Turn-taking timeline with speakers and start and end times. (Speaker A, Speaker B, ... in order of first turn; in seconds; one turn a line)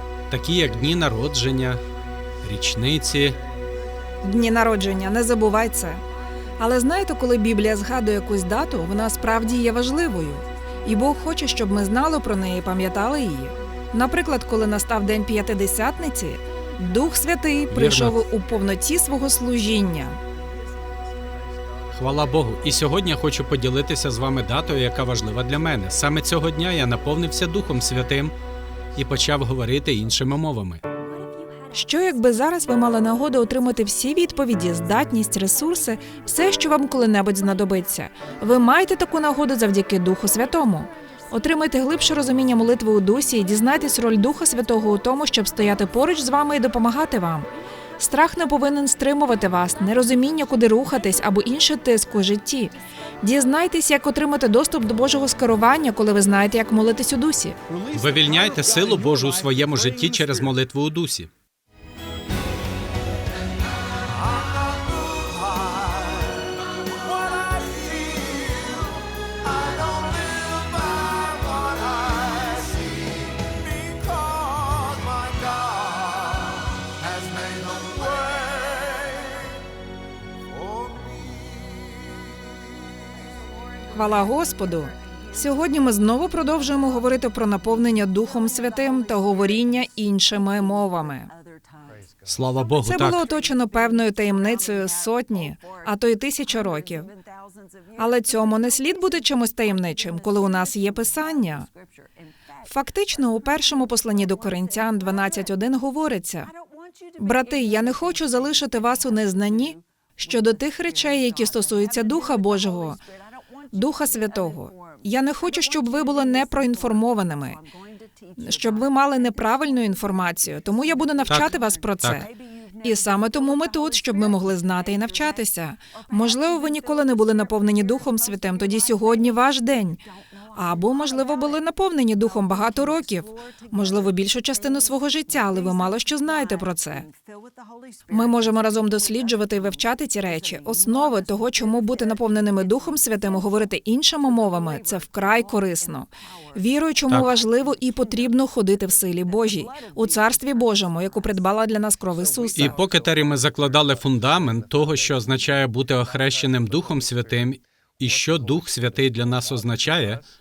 Speaker A: 0.3-1.8
Speaker A: 2.4-3.4
Speaker B: 4.2-6.0
Speaker B: 6.6-20.2
Speaker A: 17.7-18.2
Speaker A: 21.9-28.3
Speaker A: 28.9-30.8
Speaker B: 31.7-57.6
Speaker A: 57.9-61.3
Speaker B: 83.9-91.3
Speaker A: 92.2-93.2
Speaker B: 92.8-97.1
Speaker B: 98.0-101.7
Speaker B: 102.7-106.5
Speaker B: 107.2-113.0
Speaker B: 113.7-117.6
Speaker B: 118.3-122.3
Speaker A: 121.3-122.2
Speaker B: 122.8-130.0
Speaker B: 130.5-137.1
Speaker B: 138.1-152.8
Speaker A: 152.5-160.2